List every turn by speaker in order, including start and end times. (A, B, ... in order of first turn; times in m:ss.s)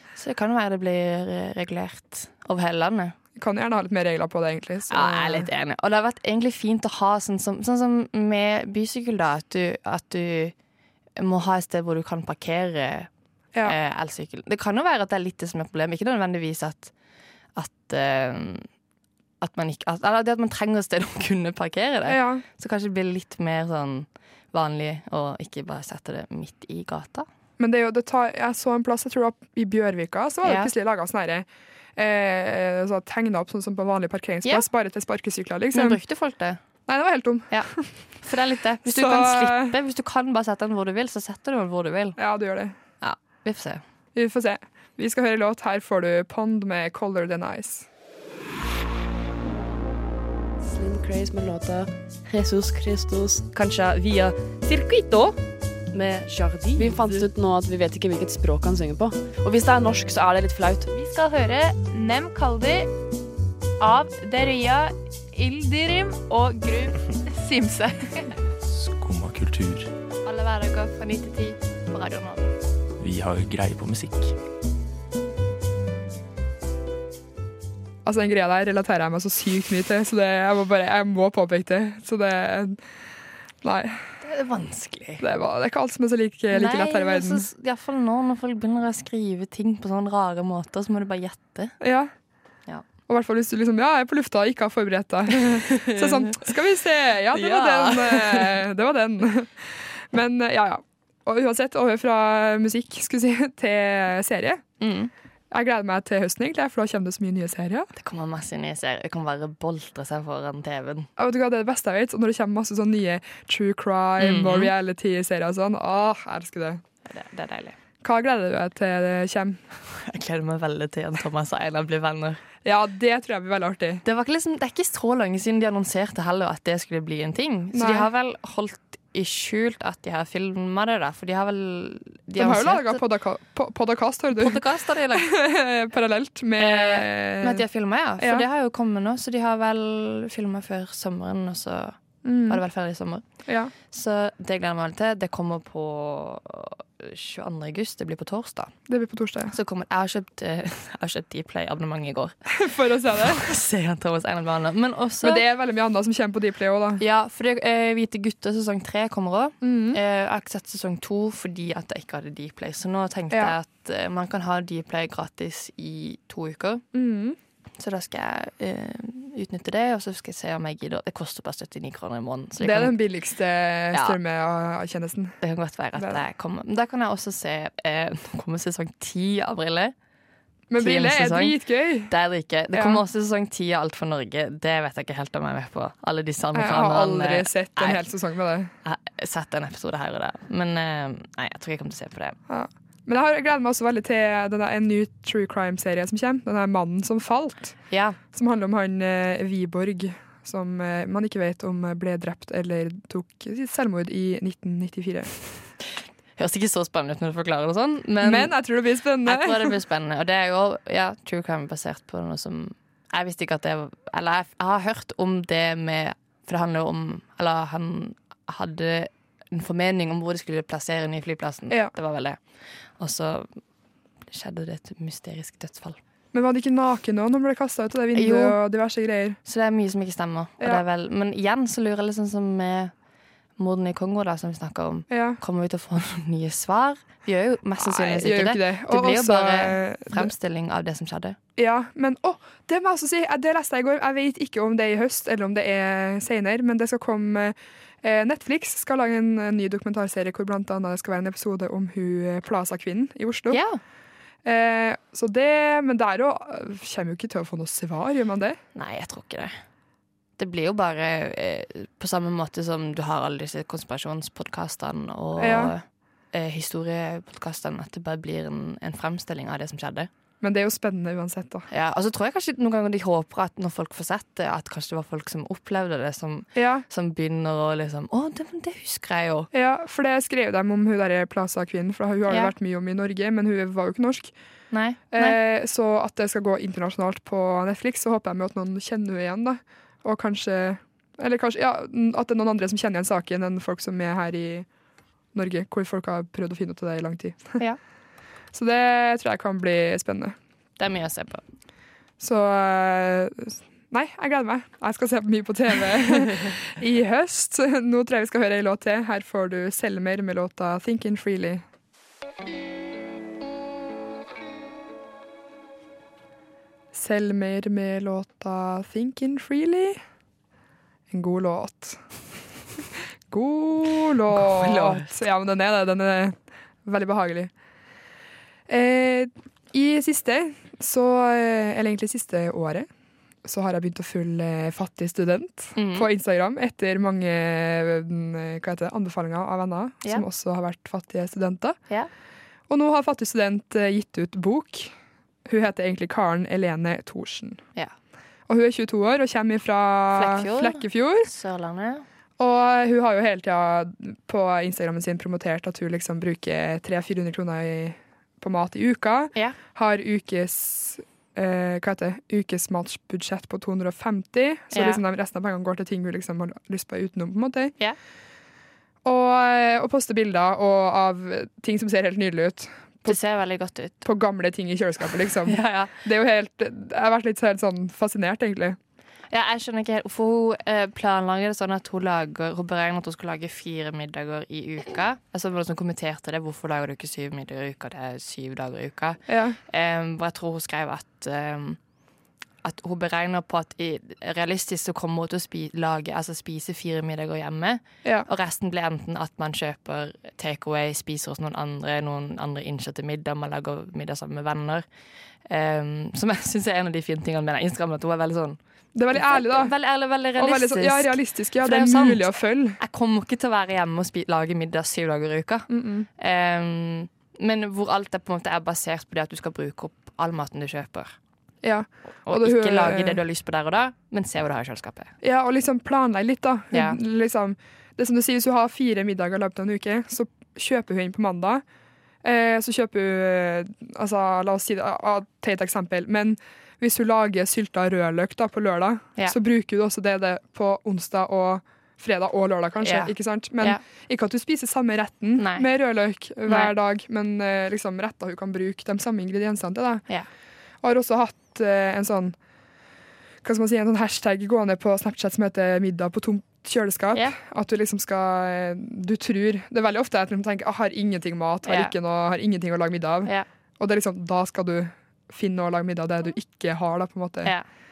0:00.2-0:03.1 A
0:03.4-0:05.5 B
0:04.9-0:10.5 A
0:11.2-0:13.1 A
0:13.6-0:16.9 A
0:17.6-0:18.7 A
0:19.4-0:27.3 A
0:22.1-0:22.4 B
0:27.6-0:36.0 B
0:30.4-0:30.7 A
0:35.7-0:36.6 A
0:36.9-0:37.9 B
0:38.2-0:42.2 A
0:38.8-0:39.8 B
0:42.2-0:42.7 B
0:43.0-0:43.8 A
0:44.1-0:47.9 B
0:50.6-0:55.3 C
0:55.9-1:00.9 C
1:00.9-1:02.8 D
1:03.9-1:04.9 D
1:05.6-1:07.9 D
1:08.6-1:09.9 E
1:10.2-1:12.5 A
1:13.0-1:14.3 E
1:18.0-1:22.8 B
1:23.6-1:24.0 B
1:24.2-1:25.2 A
1:25.2-1:27.5 B
1:26.5-1:31.7 A
1:31.8-1:32.1 B
1:33.1-1:44.6 B
1:35.5-1:36.4 A
1:37.3-1:38.6 A
1:44.8-1:45.1 A
1:45.5-1:47.9 B
1:47.9-1:51.1 A
1:51.2-1:56.8 B
1:54.2-1:54.7 A
1:57.0-1:57.8 A
1:58.0-1:59.6 B
1:59.9-2:02.4 A
2:02.6-2:04.0 B
2:04.0-2:13.0 A
2:07.7-2:08.1 B
2:12.4-2:17.6 B
2:14.3-2:15.3 A
2:16.6-2:22.0 A
2:18.2-2:18.4 B
2:22.2-2:22.6 B
2:22.5-2:23.2 A
2:23.4-2:23.7 B
2:23.9-2:28.7 A
2:28.9-2:29.5 B
2:29.5-2:32.4 A
2:32.5-2:33.5 B
2:33.1-2:35.4 A
2:35.2-2:37.0 B
2:37.0-2:46.8 A
2:39.6-2:40.0 B
2:43.3-2:43.6 B
2:46.9-2:47.4 B
2:47.8-2:53.0 A
2:52.6-2:55.4 B
2:55.4-2:59.9 A
2:56.0-2:56.2 B
3:00.7-3:02.1 B
3:00.8-3:08.0 A
3:02.7-3:03.0 B
3:06.5-3:08.7 B
3:08.8-3:12.4 A
3:12.5-3:17.8 B
3:17.9-3:18.2 A
3:18.3-3:25.3 B
3:26.4-3:28.5 A
3:28.2-3:29.8 B
3:29.2-3:42.4 A
3:41.7-3:41.9 B
3:43.0-3:43.5 A
3:44.3-3:46.0 A
3:46.3-3:49.4 B
3:48.1-3:48.6 A
3:49.4-3:52.9 A
3:53.6-4:01.4 A
3:55.1-3:55.4 B
3:57.8-4:00.3 B
4:01.6-4:13.6 B
4:13.5-4:13.8 A
4:14.4-4:18.6 B
4:18.7-4:19.6 A
4:20.4-4:30.1 A
4:25.4-4:25.7 B
4:30.4-4:31.6 B
4:31.7-4:39.5 A
4:36.5-4:36.8 B
4:39.5-4:44.3 B
4:44.7-4:45.4 A
4:45.1-4:54.7 B
4:55.3-4:57.6 B
4:58.5-5:00.4 B
5:00.8-5:01.4 A
5:02.2-5:11.6 B
5:16.9-5:20.0 B
5:21.1-5:22.0 B
5:23.3-5:27.5 B
5:24.3-5:25.1 A
5:28.7-5:32.9 B
5:33.4-5:41.8 B
5:35.8-5:36.1 A
5:42.7-5:44.9 B
5:45.4-5:47.6 B
5:48.5-5:51.3 B
5:50.1-5:52.0 A
5:52.4-6:07.7 B
6:04.7-6:05.0 A
6:09.0-6:13.2 B
6:13.0-6:14.0 A
6:14.0-6:18.8 B
6:15.4-6:15.9 A
6:19.3-6:31.8 A
6:29.3-6:29.6 B
6:32.6-6:44.8 A
6:45.4-6:48.6 A
6:48.9-6:49.7 B
6:49.1-6:52.2 A
6:50.4-6:52.8 B
6:52.8-7:01.1 A
6:55.7-6:56.1 B
7:01.6-7:03.2 B
7:02.2-7:05.1 A
7:05.2-7:11.6 B
7:06.7-7:07.0 A
7:12.2-7:30.0 B
7:22.8-7:23.8 A
7:25.4-7:25.7 A
7:30.8-7:32.4 B
7:33.4-7:47.5 B
7:41.6-7:41.9 A